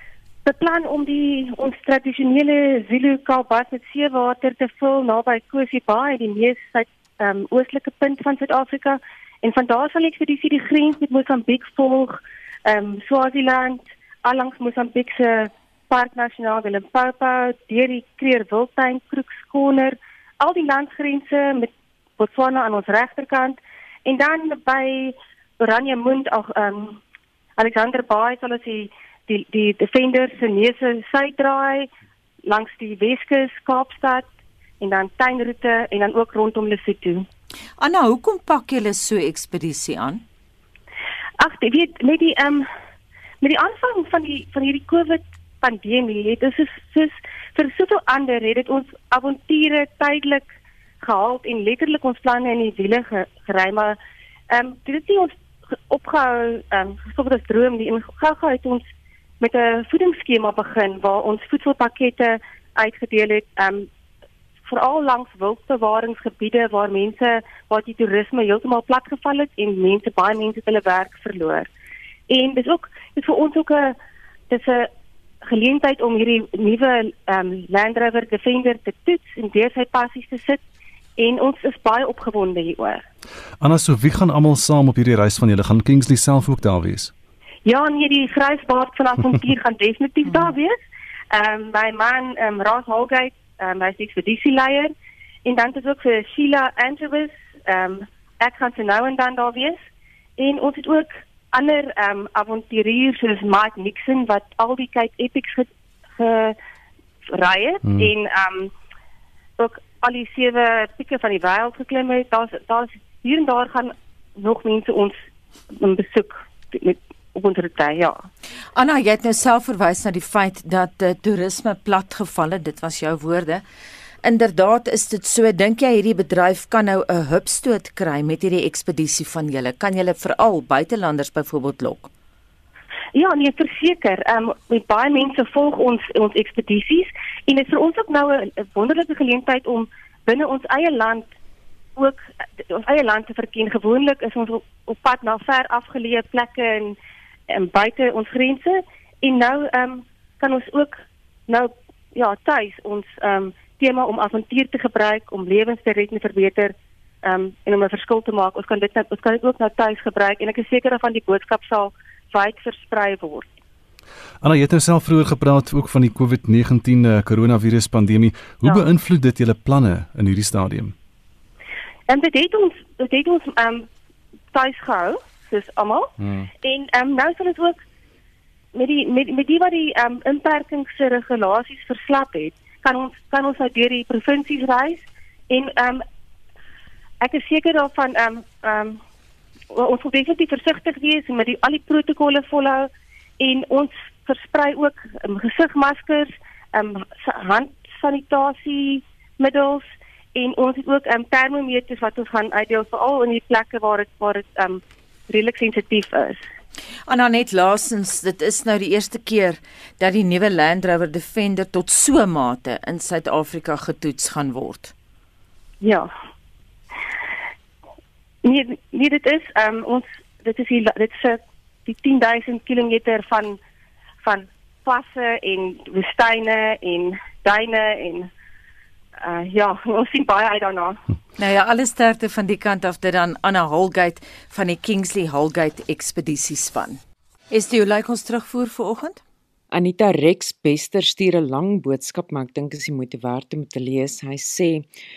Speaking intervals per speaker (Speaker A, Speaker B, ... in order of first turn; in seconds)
Speaker A: 0.5-27.0, 27.6-31.9, 32.5-34.3, 34.8-37.2, 41.4-42.6, 43.4-50.5, 51.0-54.0, 54.5-55.3, 55.9-58.8, 59.4-63.9, 64.6-71.7, 72.3-74.0, 74.5-74.9, 75.4-80.6, 81.2-83.0, 87.6-90.8, 91.3-94.9, 95.4-99.8, 100.4-106.5, 107.3-108.7, 109.6-115.2, 115.7-118.2, 133.1-141.3, 141.9-147.0, 147.5-156.7, 157.2-163.5, 172.1-173.8, 174.5-176.1, 176.6-177.8, 178.7-186.0, 187.2-189.0, 189.7-192.9, 193.4-206.4, 215.8-216.1, 218.4-223.6, 224.2-228.3, 229.2-231.0
Speaker B: 37.8-40.2, 118.7-123.6, 124.2-132.1, 207.1-214.9, 231.4-239.2
Speaker C: 83.6-87.1, 107.8-108.1, 164.4-170.9, 176.2-176.5
Speaker D: 239.7-244.9